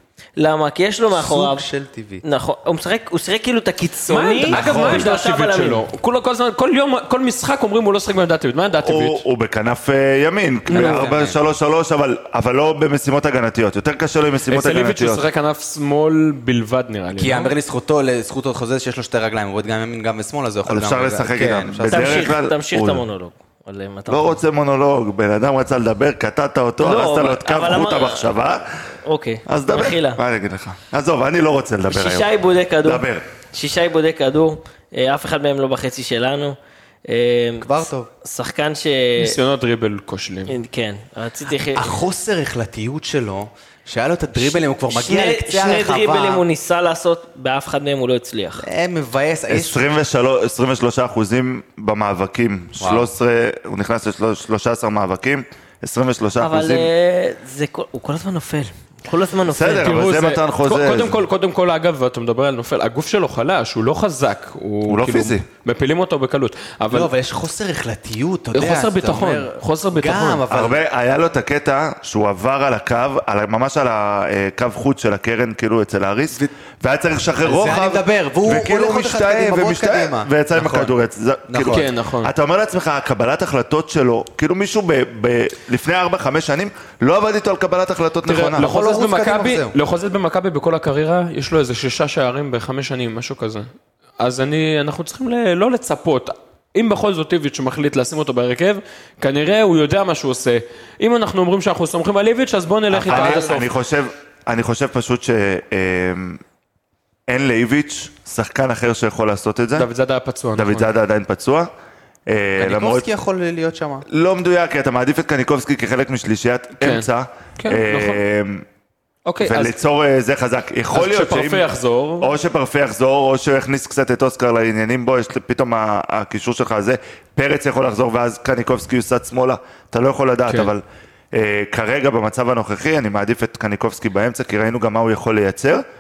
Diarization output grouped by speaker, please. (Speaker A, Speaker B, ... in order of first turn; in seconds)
Speaker A: 0.4-1.6, 2.2-5.8, 10.7-11.1, 21.9-24.4, 26.8-28.4, 29.1-30.2, 31.9-39.4, 40.5-42.0, 44.9-48.7, 56.4-60.0
Speaker B: 1.1-2.2, 10.7-11.4, 17.1-22.3, 37.6-38.1, 41.7-46.4, 48.6-49.9, 52.8-53.1, 66.9-70.8, 77.4-80.9, 81.5-81.9, 88.5-89.8, 103.0-103.5, 112.6-114.0
Speaker C: 4.1-9.2, 14.5-17.5, 39.2-40.5, 59.8-67.1, 68.5-70.4, 81.7-82.3, 88.2-103.7, 109.8-110.9, 116.8-117.1, 117.6-118.2, 119.3-119.7, 120.9-122.3, 130.5-130.7
Speaker D: 4.5-5.1, 8.8-15.2, 20.7-23.0, 24.1-28.8, 29.5-32.3, 32.8-33.3, 49.5-56.9, 59.5-61.2, 64.9-65.4, 70.5-88.7, 102.9-106.4, 107.3-109.9, 110.6-111.7, 112.3-113.1, 114.1-118.7, 119.4-121.7, 122.2-135.8